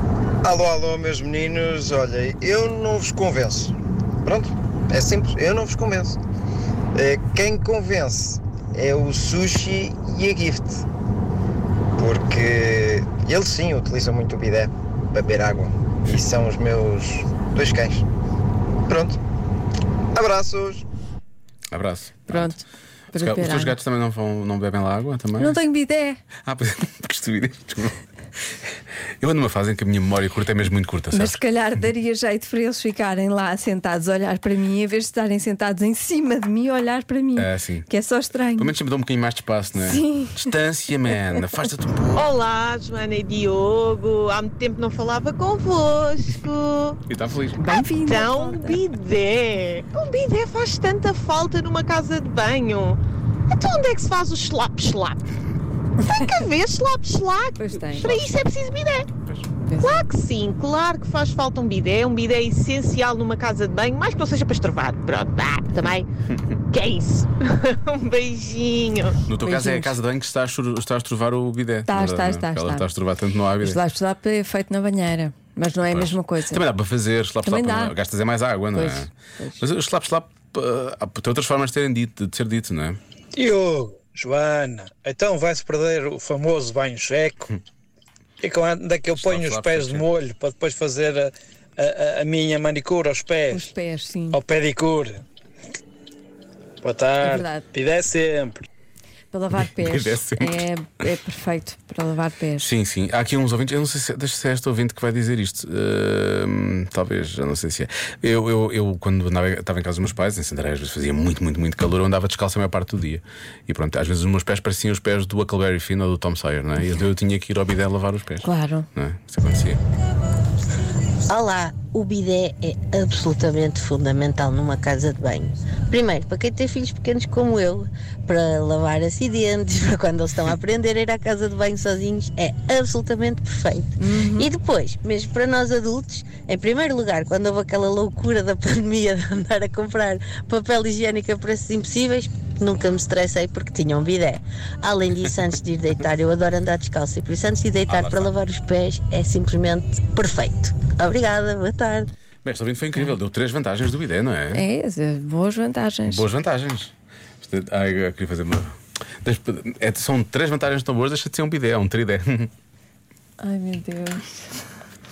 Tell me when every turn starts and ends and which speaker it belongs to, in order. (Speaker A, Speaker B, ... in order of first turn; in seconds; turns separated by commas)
Speaker A: 0.4-6.2, Speaker A: 6.9-10.8, Speaker A: 12.0-18.1, Speaker A: 18.9-19.2, Speaker A: 20.1-20.8, Speaker B: 21.7-22.5, Speaker C: 22.3-23.8, Speaker B: 23.1-25.6, Speaker C: 25.4-26.2, Speaker B: 26.5-28.0, Speaker B: 29.2-31.4, Speaker C: 31.1-38.8, Speaker B: 37.4-37.9, Speaker B: 38.6-42.3, Speaker C: 39.8-40.5, Speaker D: 42.2-47.0, Speaker B: 47.1-47.7, Speaker C: 47.6-48.8, Speaker D: 47.6-53.0, Speaker D: 53.5-55.2, Speaker D: 56.0-59.1, Speaker C: 57.5-58.2, Speaker B: 59.2-59.5, Speaker C: 59.7-60.1, Speaker D: 59.8-66.1, Speaker D: 66.7-69.2, Speaker B: 69.3-73.8, Speaker C: 69.4-70.0, Speaker C: 71.8-72.9, Speaker C: 73.6-76.7, Speaker B: 75.9-83.0, Speaker C: 77.4-77.9, Speaker C: 78.7-79.6, Speaker E: 83.3-87.5, Speaker E: 88.4-93.7, Speaker B: 89.2-90.1, Speaker C: 93.5-94.4, Speaker E: 94.3-95.2, Speaker E: 96.8-98.7, Speaker C: 97.2-97.7, Speaker C: 99.3-102.7, Speaker B: 99.5-100.7, Speaker B: 102.6-119.8, Speaker C: 118.4-118.9, Speaker F: 121.3-152.1, Speaker C: 134.0-134.5, Speaker B: 147.9-148.3, Speaker B: 152.4-154.6, Speaker C: 154.5-156.3, Speaker B: 156.1-162.5, Speaker C: 163.4-164.6